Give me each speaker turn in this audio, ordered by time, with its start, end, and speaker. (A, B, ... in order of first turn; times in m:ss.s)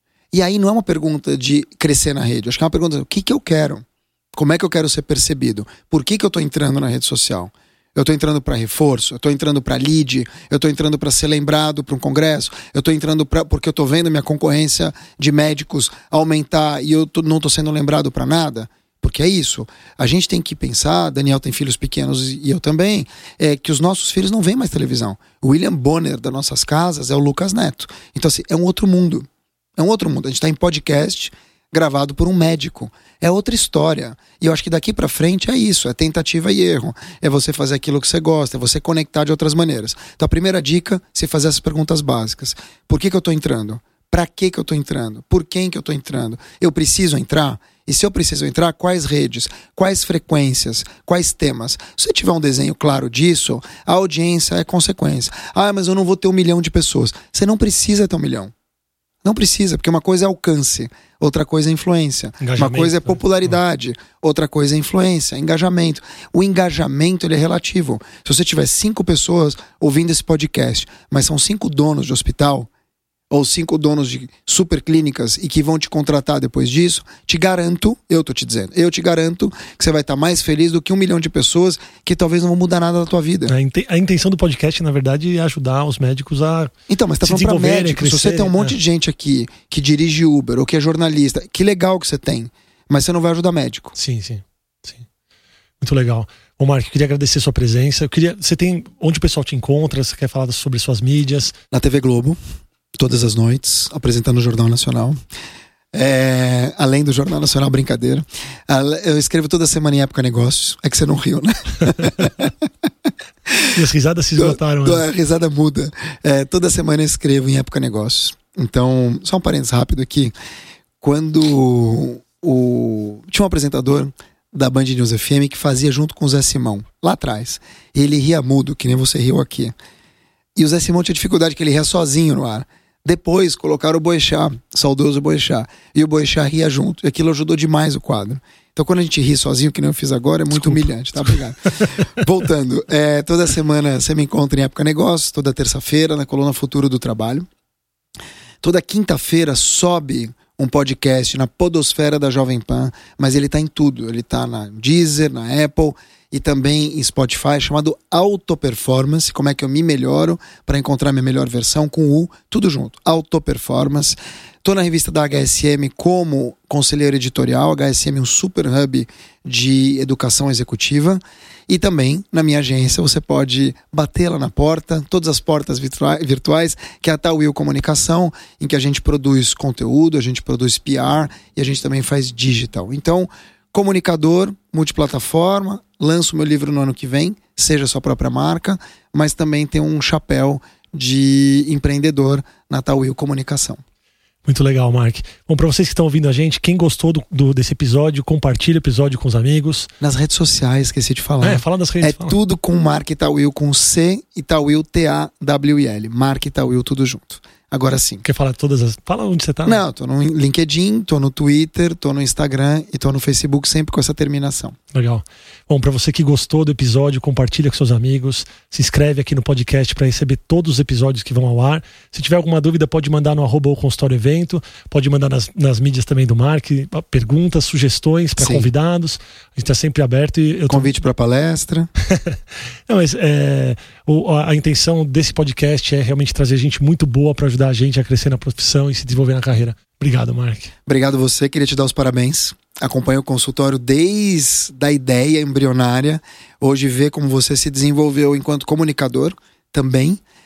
0:00.3-0:58.5 A
0:59.2-1:12.7 A
1:02.4-1:03.5 B
1:13.3-1:23.5 A
1:23.5-1:28.8 B
1:26.9-1:34.0 A
1:34.0-1:35.1 B
1:35.8-1:41.5 B
1:41.7-1:42.4 A
1:43.0-1:45.2 A
1:45.9-1:52.6 A
1:53.5-1:53.7 A
1:53.7-1:55.0 B
1:54.4-2:00.3 A
2:01.0-2:09.7 A
2:10.6-2:27.5 A
2:20.5-2:22.1 B
2:28.6-3:13.8 A
3:14.4-3:19.9 B
3:20.0-3:28.2 A
3:21.4-3:22.4 B
3:28.2-3:29.8 B
3:29.6-3:34.8 A
3:34.9-3:50.9 B
3:48.4-3:48.7 A
3:50.7-3:51.9 A
3:52.0-4:00.7 B
4:00.8-4:10.2 A